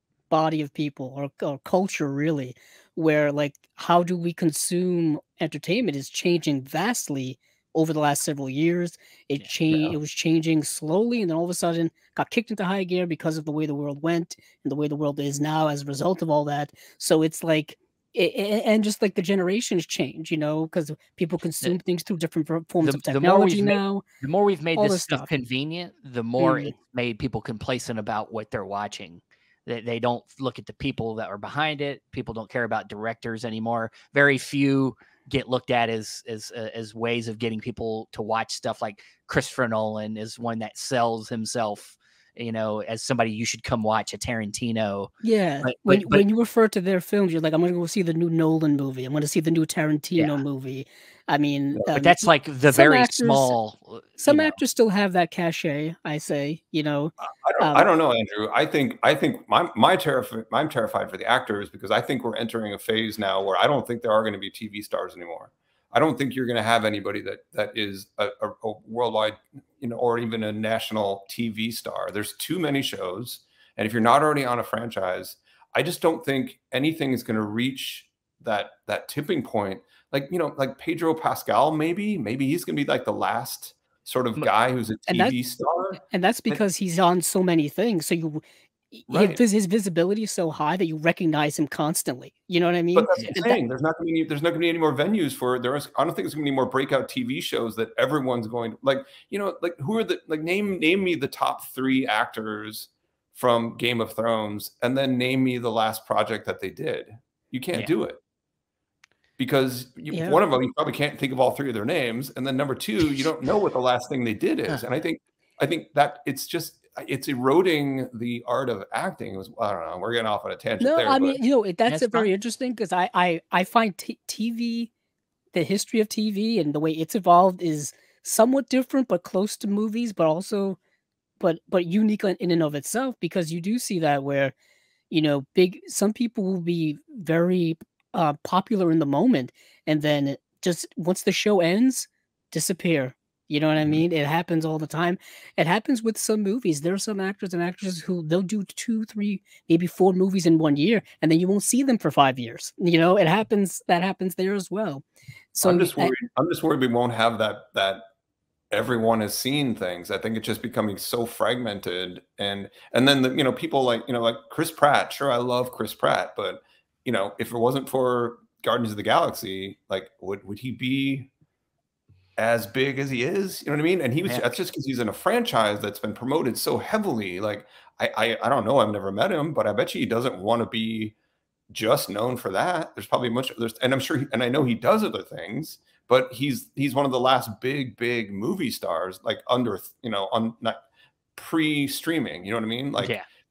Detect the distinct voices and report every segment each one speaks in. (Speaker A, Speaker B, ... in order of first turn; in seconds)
Speaker A: 0.3-24.0, 24.7-25.3, 26.4-26.7, 45.2-53.5, 54.2-57.9, 85.1-85.3, 86.1-93.6, 110.1-110.4, 120.8-124.9, 125.5-130.8, 131.4-134.5, 135.1-156.1
Speaker B: 9.4-9.9, 22.8-45.1, 45.6-46.2, 51.9-54.6, 121.9-122.3, 193.0-193.2
Speaker C: 57.2-86.6, 89.1-89.4, 92.9-108.2, 109.4-121.4, 155.6-158.0, 158.7-171.3, 172.4-181.1, 181.7-190.8, 191.3-193.2